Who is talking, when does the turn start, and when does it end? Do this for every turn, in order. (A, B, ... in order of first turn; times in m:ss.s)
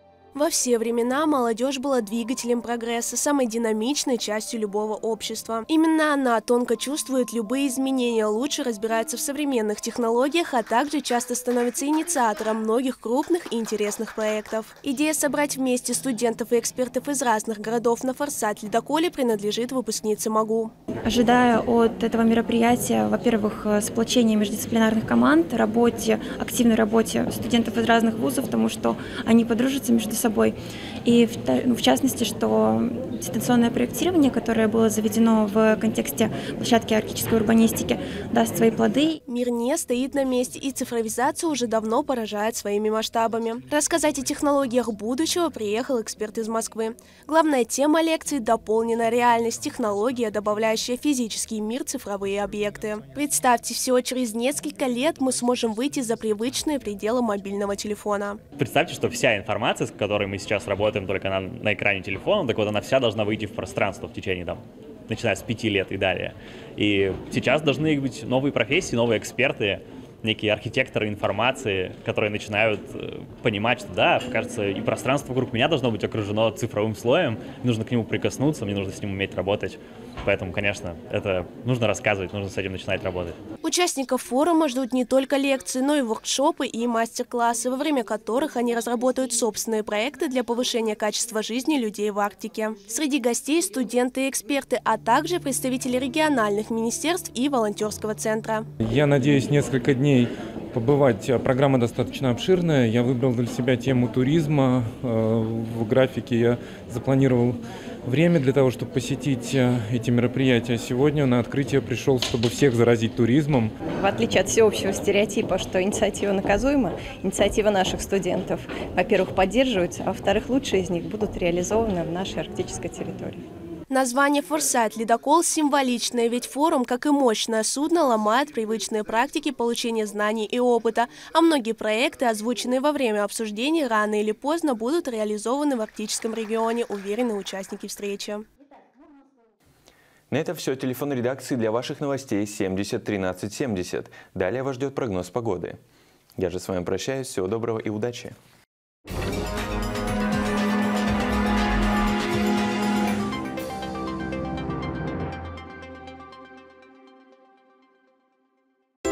0:00.3-0:20.7 A
0:21.0-0:39.2 B
0:39.3-0:58.4 A
0:58.6-1:23.4 C
1:23.6-1:38.7 A
1:38.8-1:53.7 D
1:53.9-2:03.4 E
2:03.9-2:18.4 A
2:20.3-2:25.8 F
2:26.4-2:28.3 F